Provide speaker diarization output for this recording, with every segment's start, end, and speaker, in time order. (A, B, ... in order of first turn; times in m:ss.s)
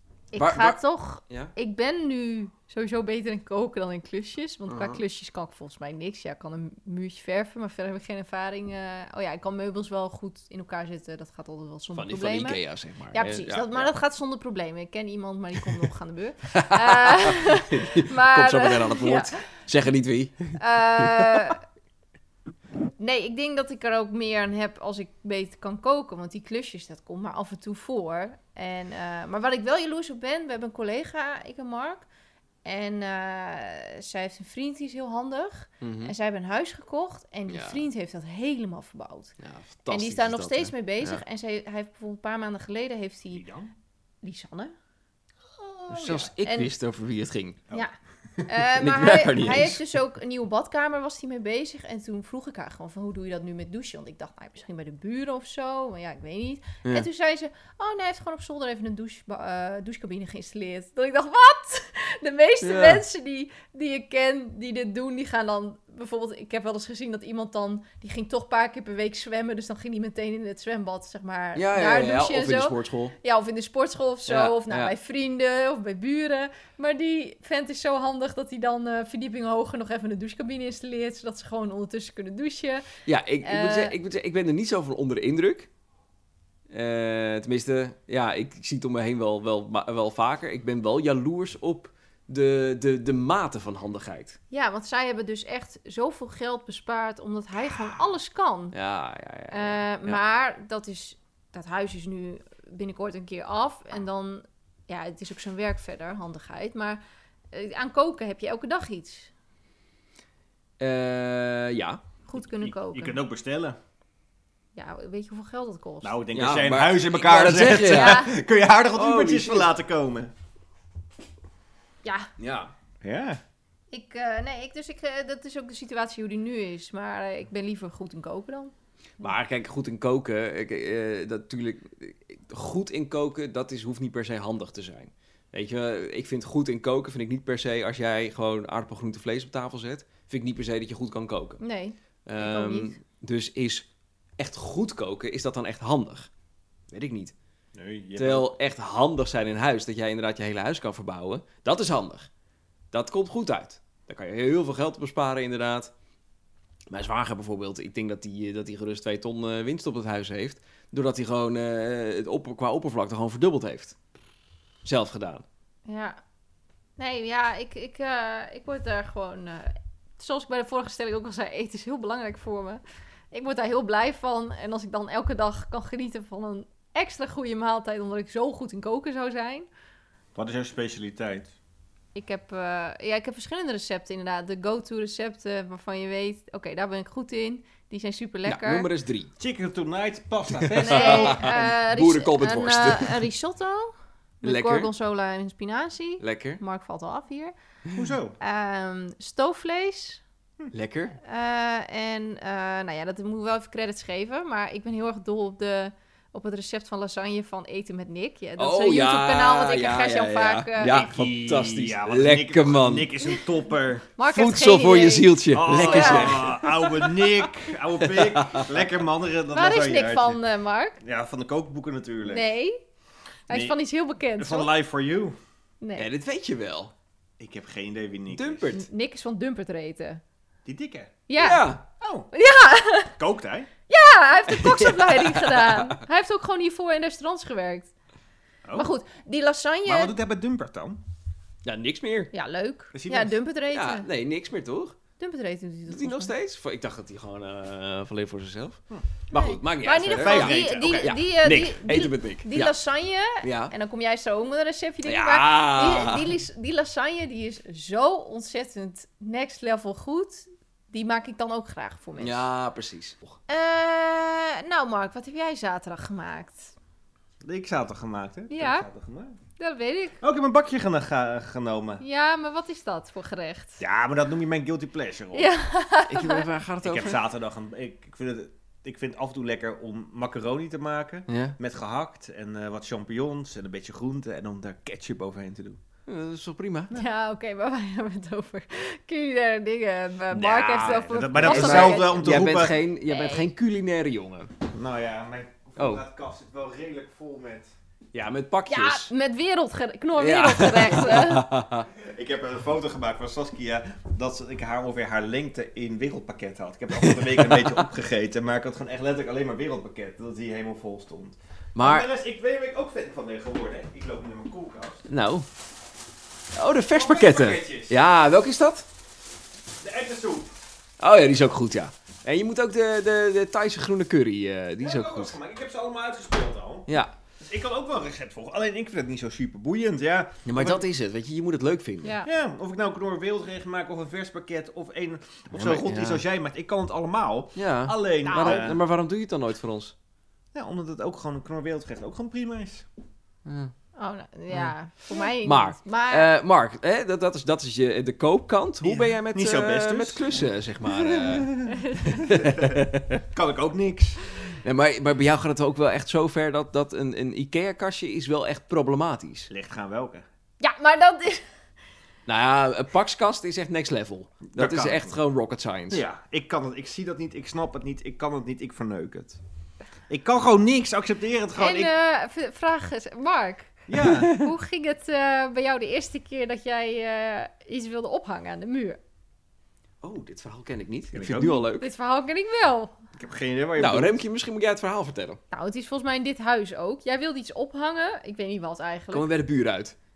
0:00.3-0:12.6 A
0:00.4-0:01.5 B
0:04.7-0:05.0 B
0:11.9-0:13.9 B
0:13.1-0:19.4 A
0:16.5-0:21.5 B
0:20.6-0:21.6 A
0:23.0-0:32.1 A
0:32.6-0:39.3 A
0:35.8-0:36.1 B
0:37.5-0:37.8 B
0:39.4-0:41.2 B
0:39.9-0:43.5 A
0:43.3-0:43.7 C
0:44.2-0:44.7 A
0:45.6-0:46.3 C
0:45.9-0:47.6 B
0:46.4-0:46.7 A
0:48.4-1:24.0 A
0:48.7-0:49.8 B
1:02.6-1:03.0 B
1:11.6-1:13.2 B
1:14.3-1:14.9 B
1:23.1-1:25.7 B
1:26.7-1:34.4 B
1:34.5-1:38.8 A
1:38.7-1:40.2 B
1:39.5-1:47.0 A
1:47.5-1:49.3 A
1:50.8-1:52.0 B
1:52.3-1:53.2 A
1:52.6-1:53.8 C
1:54.8-1:56.2 A
1:56.0-2:00.3 C
1:56.3-1:58.3 B
1:57.7-1:58.3 A
1:58.9-1:59.7 B
2:02.0-2:02.3 A
2:02.4-2:02.7 B
2:03.0-2:03.4 C
2:03.9-2:08.7 A
2:09.2-2:21.6 B
2:21.6-2:23.0 A
2:22.3-2:26.3 B
2:26.9-2:27.3 B
2:27.7-2:28.5 C
2:28.2-2:32.3 B
2:32.9-2:35.9 B
2:36.9-2:44.0 B
2:44.8-2:45.4 B
2:45.9-2:46.2 A
2:47.0-2:52.8 A
2:53.3-2:59.7 A
3:00.4-3:01.5 C
3:02.2-3:08.9 A
3:08.4-3:09.3 B
3:09.4-3:11.7 C
3:10.5-3:13.3 B
3:10.8-3:17.5 A
3:14.4-3:14.9 B
3:16.2-3:16.6 B
3:18.0-3:18.4 C
3:18.4-3:20.2 A
3:20.7-3:21.2 B
3:21.2-3:31.0 A
3:28.6-3:33.1 B
3:30.8-3:34.1 C
3:34.2-3:36.7 A
3:34.3-3:37.4 B
3:35.5-3:40.4 C
3:38.0-3:38.7 B
3:39.5-3:41.0 A
3:41.0-3:42.5 C
3:42.2-3:42.8 A
3:43.5-3:44.7 A
3:43.5-3:43.8 C
3:44.4-3:45.4 C
3:45.8-3:46.1 A
3:46.0-3:46.9 B
3:47.4-3:48.7 C
3:48.3-3:48.9 B
3:48.7-3:50.2 A
3:50.7-3:51.2 C
3:51.3-3:51.7 A
3:51.4-3:51.8 B
3:52.0-3:52.3 C
3:52.3-3:53.2 A
3:53.2-3:53.7 C
3:53.9-3:57.9 A
3:54.5-3:56.0 B
3:58.6-3:58.9 C
3:58.7-4:00.2 A
3:59.9-4:01.0 C
4:01.6-4:02.3 B
4:02.3-4:04.1 A
4:02.9-4:03.4 C
4:03.7-4:05.0 B
4:05.2-4:06.3 A
4:05.9-4:08.8 B
4:09.3-4:12.7 B
4:09.3-4:22.4 A
4:10.1-4:11.2 C
4:13.4-4:13.7 B
4:15.0-4:16.3 B
4:22.2-4:23.4 B
4:23.5-4:26.7 A
4:27.4-4:29.4 C
4:28.5-4:28.9 A
4:29.6-4:30.2 A
4:30.2-4:32.0 C
4:32.0-4:33.8 A
4:33.8-4:35.5 C
4:35.3-4:36.5 A
4:36.1-4:37.2 B
4:36.8-4:45.8 C
4:41.3-4:41.6 B
4:46.1-4:46.9 B
4:46.9-4:52.4 A
4:50.3-4:54.5 B
4:50.8-4:52.8 C
4:53.1-4:53.5 A
4:54.7-4:57.7 C
4:55.8-4:56.0 B
4:58.1-4:59.1 B
4:58.7-5:01.5 A
5:00.2-5:01.9 B
5:01.9-5:15.0 C
5:06.9-5:07.9 B
5:11.8-5:12.1 B
5:15.1-5:15.5 B
5:16.6-5:18.9 B
5:16.9-5:18.0 C
5:19.8-5:20.5 C
5:21.0-5:25.4 B
5:24.8-5:30.8 C
5:26.9-5:27.2 B
5:30.4-5:32.2 B
5:32.0-5:32.3 A
5:32.2-5:38.8 C
5:35.5-5:36.2 B
5:37.6-5:40.0 B
5:38.2-5:38.6 A
5:40.6-5:42.9 C
5:43.4-5:43.7 B
5:44.0-5:46.3 A
5:44.5-5:53.2 B
5:48.8-5:50.4 C
5:50.9-5:54.2 C
5:51.8-5:52.2 A
5:54.5-5:59.5 B
5:59.5-6:00.2 C
6:00.6-6:01.4 A
6:02.3-6:06.0 B
6:04.5-6:05.1 C
6:05.9-6:09.4 C
6:10.1-6:11.9 C
6:11.6-6:19.0 A
6:13.9-6:14.4 C
6:14.0-6:14.5 B
6:20.0-6:21.9 B
6:21.1-6:21.6 C
6:21.4-6:22.9 A
6:23.2-6:24.2 C
6:23.8-6:25.4 B
6:25.5-6:29.3 A
6:29.1-6:30.0 B